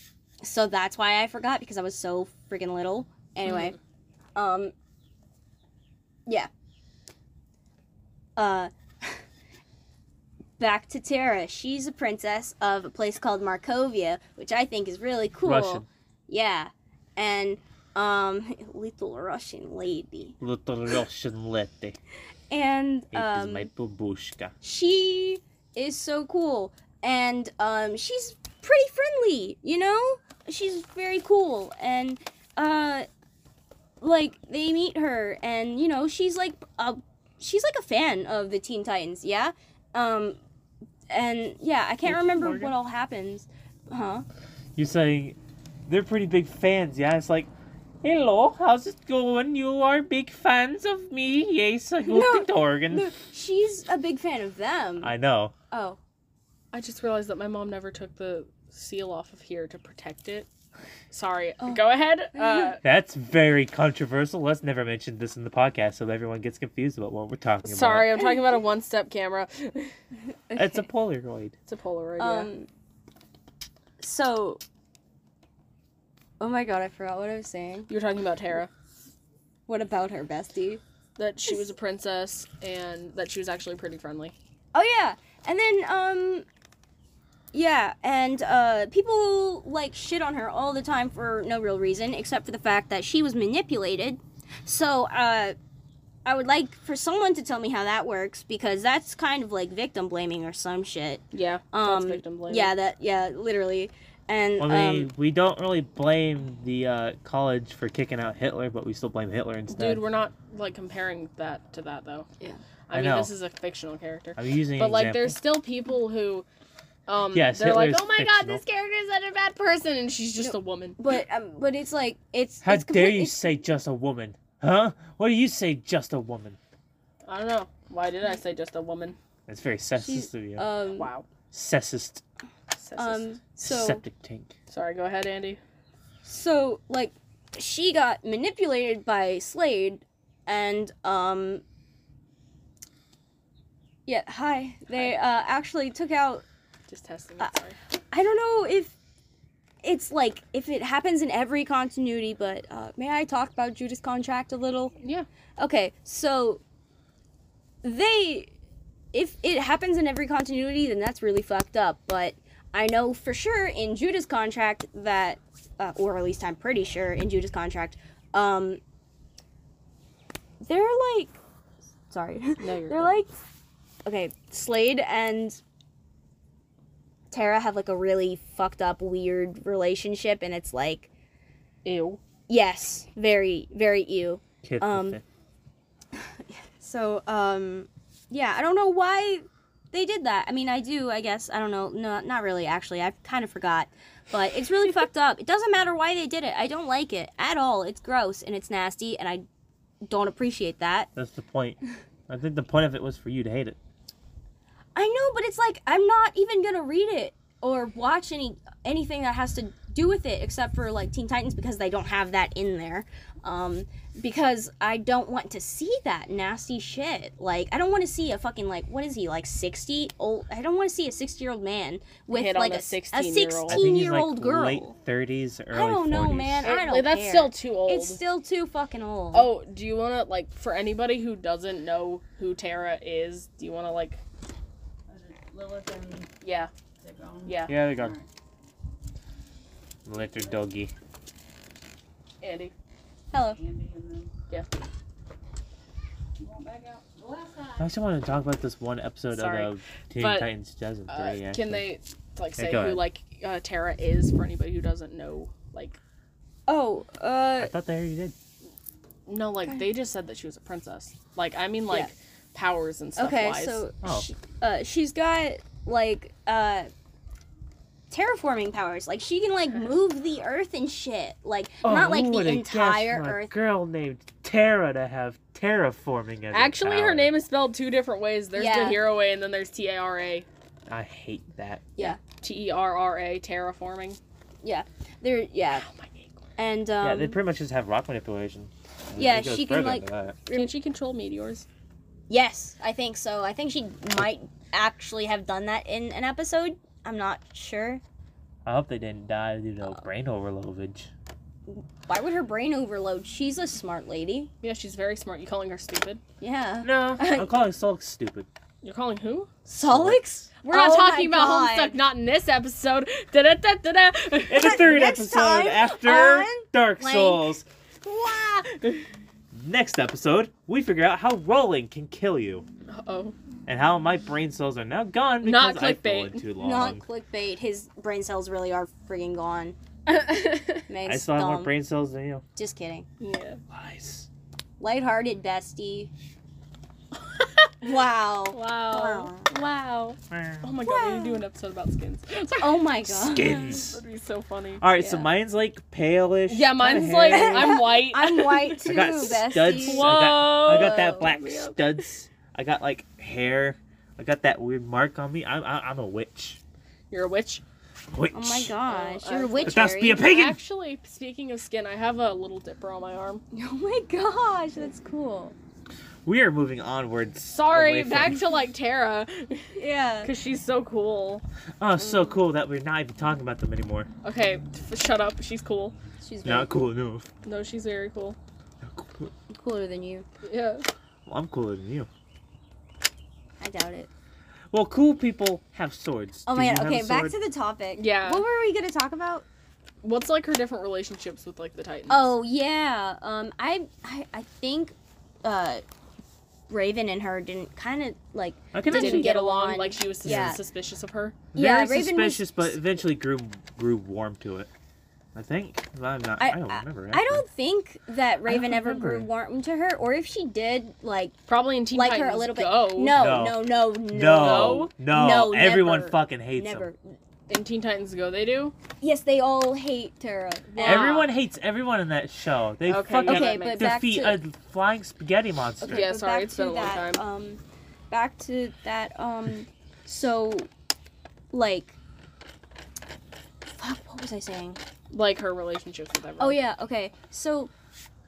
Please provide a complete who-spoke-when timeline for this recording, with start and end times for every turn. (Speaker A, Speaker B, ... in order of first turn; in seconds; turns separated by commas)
Speaker A: 0.4-3.8, Speaker B: 3.5-3.7, Speaker A: 4.3-4.7, Speaker A: 8.4-9.2, Speaker A: 10.6-20.4, Speaker C: 15.4-15.9, Speaker C: 20.4-22.0, Speaker A: 22.5-23.7, Speaker C: 23.1-24.5, Speaker A: 24.6-33.1, Speaker A: 34.0-40.4, Speaker A: 41.1-44.2, Speaker C: 42.0-42.7, Speaker C: 44.8-47.5, Speaker C: 48.0-53.1, Speaker A: 52.0-55.1, Speaker C: 55.0-55.5, Speaker A: 55.7-56.0, Speaker B: 56.7-60.5, Speaker B: 61.1-62.8, Speaker A: 62.4-62.7, Speaker C: 62.8-68.1, Speaker B: 67.7-69.9, Speaker A: 70.5-70.8, Speaker C: 70.6-71.5, Speaker B: 71.7-72.5, Speaker A: 72.2-72.7, Speaker A: 74.0-74.6, Speaker A: 76.4-77.9, Speaker B: 77.9-78.7, Speaker A: 79.7-80.8, Speaker B: 81.2-84.3, Speaker A: 84.7-86.5, Speaker A: 87.5-95.5, Speaker A: 96.2-105.1, Speaker B: 101.3-102.7, Speaker C: 104.6-110.0, Speaker B: 109.7-112.3, Speaker B: 112.9-116.5, Speaker C: 112.9-113.3, Speaker C: 114.4-115.4, Speaker B: 117.1-121.0, Speaker C: 117.3-118.6, Speaker A: 120.4-123.5, Speaker C: 122.6-126.6, Speaker B: 127.3-129.2, Speaker C: 129.5-130.7, Speaker A: 130.0-131.1, Speaker B: 131.0-131.2, Speaker C: 131.5-132.2, Speaker B: 132.8-133.4, Speaker A: 133.0-134.0, Speaker C: 133.6-134.6, Speaker B: 134.7-135.6, Speaker A: 136.2-141.6, Speaker A: 144.1-146.4, Speaker B: 146.9-147.8, Speaker A: 148.1-148.9, Speaker A: 149.8-155.0, Speaker B: 155.0-155.3, Speaker A: 155.6-156.6, Speaker A: 157.8-158.5, Speaker A: 159.1-168.8, Speaker A: 170.6-171.4, Speaker A: 172.1-173.3, Speaker B: 172.6-173.2, Speaker A: 174.1-175.6, Speaker A: 177.3-181.1, Speaker B: 181.8-182.2, Speaker A: 182.5-185.2, Speaker C: 184.6-185.2, Speaker A: 186.1-199.4, Speaker A: 200.1-201.1, Speaker C: 201.2-203.8, Speaker A: 204.9-224.9, Speaker B: 222.3-223.9, Speaker C: 223.7-226.7, Speaker A: 225.7-229.5, Speaker B: 226.6-228.2, Speaker B: 229.3-234.2, Speaker D: 235.1-236.3, Speaker B: 236.4-236.7, Speaker D: 237.0-238.3, Speaker B: 237.5-237.8, Speaker C: 237.7-238.2, Speaker C: 240.1-240.9, Speaker D: 240.2-240.7, Speaker B: 242.4-242.7, Speaker A: 243.3-243.6, Speaker D: 243.3-244.3, Speaker D: 246.4-247.9, Speaker C: 247.8-251.8, Speaker B: 249.3-250.5, Speaker B: 251.1-256.0, Speaker C: 252.6-253.0, Speaker A: 256.7-257.7, Speaker C: 257.6-258.4, Speaker B: 259.3-263.8, Speaker A: 263.2-266.9, Speaker A: 268.1-273.5, Speaker C: 271.8-277.3, Speaker B: 276.5-280.5, Speaker A: 278.6-279.0, Speaker C: 280.9-281.9, Speaker B: 282.0-284.2, Speaker A: 284.6-285.9, Speaker B: 285.8-286.4, Speaker A: 286.6-287.4, Speaker C: 287.0-290.4, Speaker A: 289.2-290.7, Speaker B: 290.5-291.7, Speaker A: 292.3-298.0, Speaker C: 298.6-301.1, Speaker A: 301.7-304.5, Speaker B: 304.6-306.2, Speaker A: 306.4-307.5, Speaker C: 306.8-308.5, Speaker B: 308.8-309.5, Speaker A: 309.7-312.0, Speaker C: 309.9-310.2, Speaker B: 310.7-314.8, Speaker C: 314.5-317.6, Speaker A: 314.5-317.5, Speaker B: 318.1-319.0, Speaker C: 319.5-322.7, Speaker B: 322.9-323.3, Speaker C: 323.7-327.0, Speaker B: 325.4-326.4, Speaker A: 326.6-329.8, Speaker B: 330.1-330.9, Speaker A: 330.9-331.7, Speaker C: 331.1-332.4, Speaker A: 332.6-333.1, Speaker B: 333.2-333.6, Speaker C: 333.7-334.3, Speaker A: 334.8-336.1, Speaker B: 337.2-337.9, Speaker A: 337.8-339.5, Speaker B: 338.5-342.9, Speaker C: 340.3-340.7, Speaker A: 340.8-341.4, Speaker A: 342.6-343.8, Speaker C: 343.1-344.0, Speaker B: 343.7-344.9, Speaker C: 344.8-347.8, Speaker A: 345.0-345.3, Speaker B: 346.5-348.8, Speaker A: 346.9-351.3, Speaker C: 348.8-356.6, Speaker B: 349.8-352.0, Speaker B: 357.1-357.6, Speaker C: 358.1-358.7, Speaker A: 358.3-360.2, Speaker B: 358.9-363.4, Speaker C: 359.7-360.6, Speaker A: 363.5-365.6, Speaker C: 366.2-368.4, Speaker B: 367.5-371.4, Speaker A: 369.8-370.3, Speaker C: 371.8-374.1, Speaker A: 372.0-372.4, Speaker B: 374.2-375.9, Speaker A: 376.2-376.8, Speaker C: 376.4-377.3, Speaker B: 377.4-378.4, Speaker C: 378.8-379.3, Speaker A: 379.5-380.2, Speaker B: 380.4-380.9, Speaker C: 381.3-382.1, Speaker A: 383.6-384.1, Speaker C: 384.7-387.4, Speaker A: 386.5-389.4, Speaker B: 388.0-388.4, Speaker B: 390.0-392.3, Speaker A: 392.1-395.8, Speaker A: 396.7-400.6, Speaker C: 398.7-399.3, Speaker B: 398.9-401.4, Speaker C: 400.2-400.6, Speaker A: 401.5-402.7, Speaker C: 401.5-404.7, Speaker C: 405.4-407.4, Speaker A: 406.4-411.4, Speaker C: 408.5-409.3, Speaker B: 411.5-413.2, Speaker A: 411.9-417.1, Speaker C: 413.1-416.9, Speaker B: 414.4-414.9, Speaker B: 417.5-418.8, Speaker A: 419.0-421.2, Speaker B: 420.7-421.3, Speaker C: 420.8-426.1, Speaker B: 422.9-423.9, Speaker A: 423.3-424.4, Speaker A: 425.8-430.7, Speaker B: 425.9-427.2, Speaker A: 431.5-432.0, Speaker A: 433.8-434.8, Speaker B: 435.1-436.6, Speaker A: 436.4-437.7